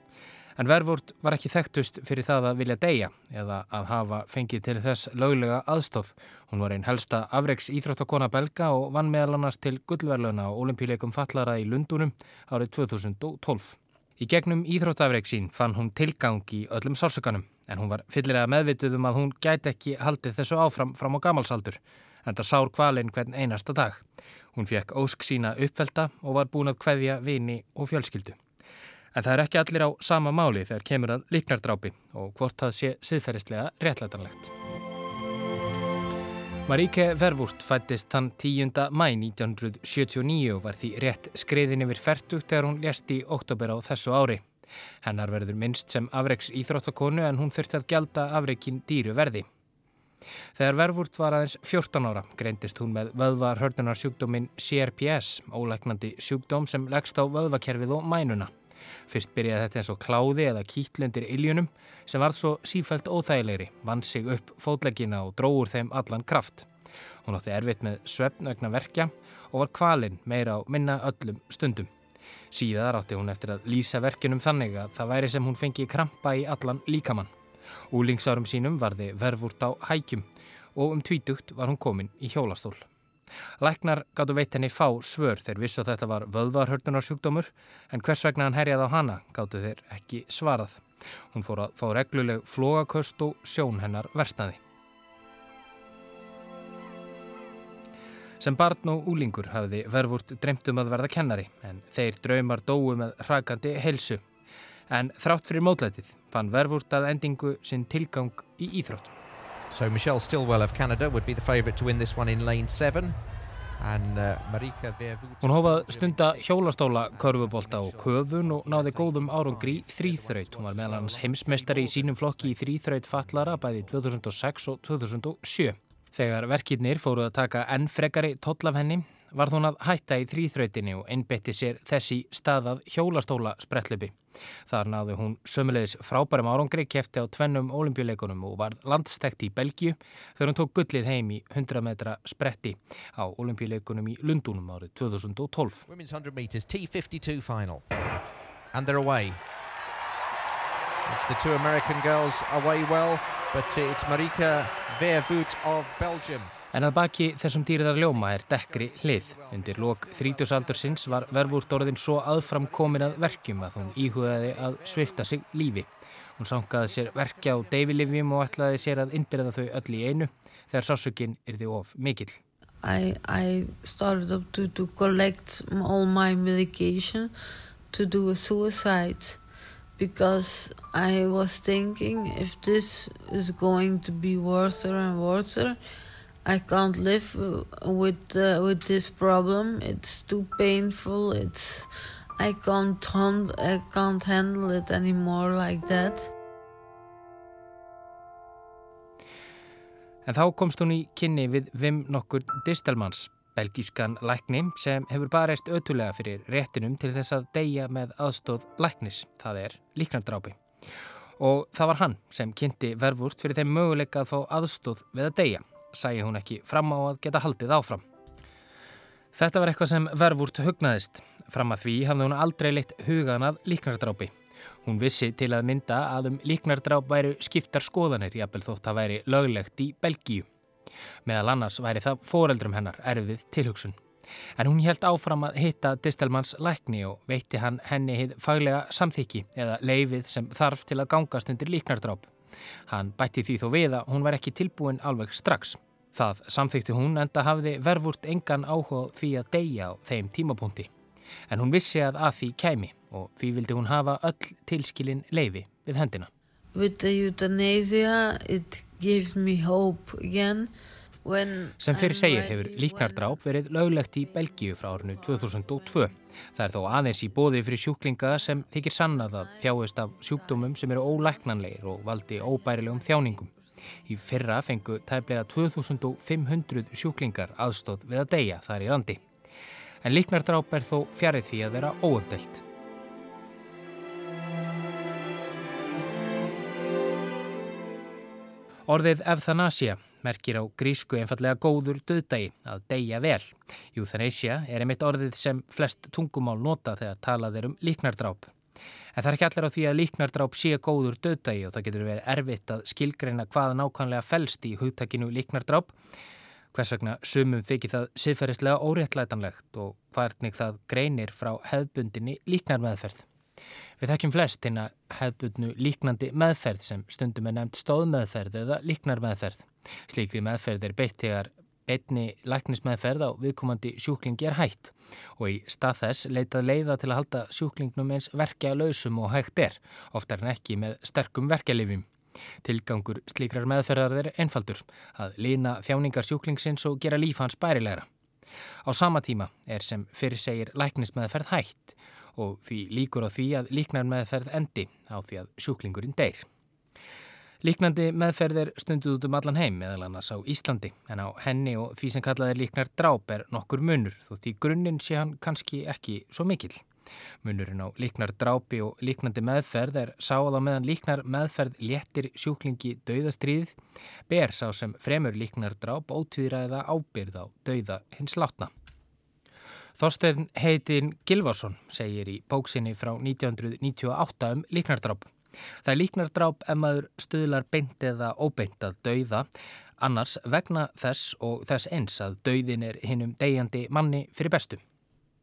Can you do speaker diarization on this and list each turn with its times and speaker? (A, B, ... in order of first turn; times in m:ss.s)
0:00.6-0:24.0 A
0:24.5-0:28.4 A
0:29.1-0:34.5 A
0:36.7-0:44.4 A
0:45.0-0:49.5 A
0:50.6-0:58.5 A
0:59.1-1:06.7 A
1:07.2-1:11.9 A
1:12.5-1:17.3 A
1:17.9-1:22.9 A
1:23.6-1:30.8 A
1:31.3-1:34.6 A
1:38.4-1:44.2 A
1:44.9-1:49.1 A
1:49.7-1:53.2 B
1:53.8-2:04.1 B
1:55.4-2:14.2 A
2:14.7-2:25.9 A
2:25.9-2:28.2 B
2:28.7-2:29.4 B
2:31.0-2:36.5 B
2:36.7-2:45.9 A
2:38.0-2:45.4 B
2:46.4-2:52.4 A
2:46.9-2:49.1 B
2:52.8-2:57.4 C
2:57.9-3:05.9 C
3:06.4-3:16.3 C
3:20.3-3:30.6 A
3:31.4-3:38.0 A
3:39.3-3:44.3 A
3:44.8-3:50.5 A
3:51.3-3:54.0 A
3:54.6-4:02.3 A
4:02.9-4:10.9 A
4:11.5-4:16.3 A
4:16.7-4:23.4 C
4:21.8-4:33.5 A
4:24.2-4:24.6 C
4:29.1-4:31.2 C
4:34.1-4:39.2 A
4:40.0-4:42.6 A
4:48.9-4:58.5 A
4:59.2-5:05.9 A
5:06.7-5:13.2 A
5:14.0-5:32.1 A
5:32.6-5:38.1 A
5:38.9-5:46.4 A
5:47.6-5:56.8 A
5:57.4-6:03.8 A
6:04.3-6:08.7 A
6:10.0-6:15.3 A
6:15.8-6:19.5 A
6:20.0-6:24.8 A